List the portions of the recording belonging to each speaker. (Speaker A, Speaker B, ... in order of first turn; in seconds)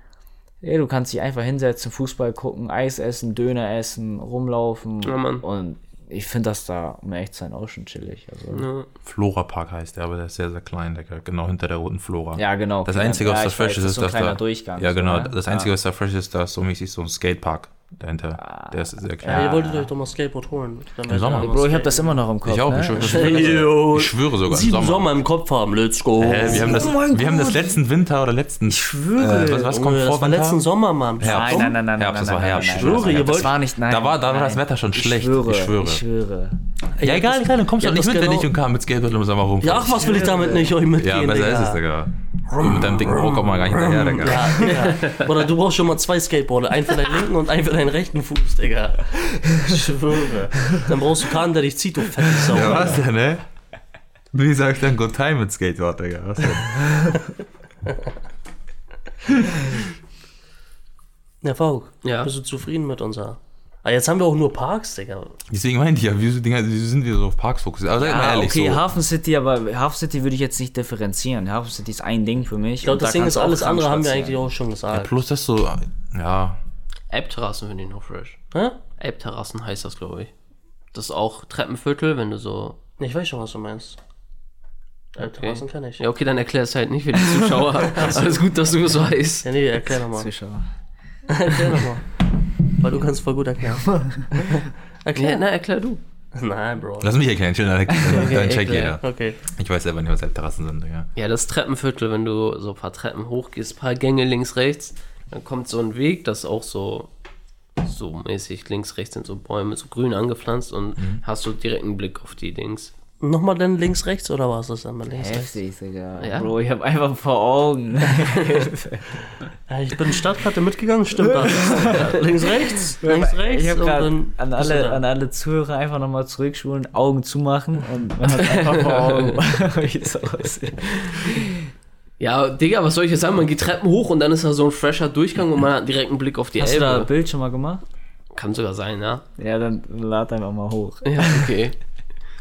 Speaker A: 0.6-8.7, 12.3-15.7, 18.4-19.9, 21.3-23.7, 26.4-27.8, 28.7-29.7, 31.2-36.6, 40.0-40.7, 68.0-74.5, 90.1-90.7, 93.9-94.3, 97.9-98.3, 115.1-119.4, 121.4-122.0, 122.7-131.7, 136.6-137.8, 139.4-141.6
Speaker B: 5.0-5.4, 8.5-8.9, 44.9-45.2, 62.0-62.3, 77.1-78.4, 79.0-80.3, 80.9-82.8, 85.2-89.5, 95.2-96.0, 98.1-99.0, 101.2-107.1, 107.8-112.9, 116.2-116.5, 118.2-118.7, 128.3-129.4, 130.9-131.4, 132.2-137.1, 138.3-139.2, 141.0-141.8
Speaker C: 9.0-19.6, 21.1-21.6, 22.4-25.1, 26.2-30.6, 31.2-36.0, 37.0-44.7, 52.4-53.4, 54.3-57.2, 65.5-68.8, 74.9-76.6, 97.0-101.1, 111.0-111.2
Speaker D: 19.2-22.2, 22.9-27.0, 29.3-31.8, 32.5-33.6, 36.9-38.5, 39.6-41.8, 42.5-53.0, 61.4-65.4, 72.8-75.1, 78.5-78.8, 83.0-84.0, 85.2-86.0, 87.9-88.4, 89.4-90.3, 91.3-92.1, 92.8-95.4, 96.3-97.1, 99.0-99.4, 113.2-115.6, 119.7-125.0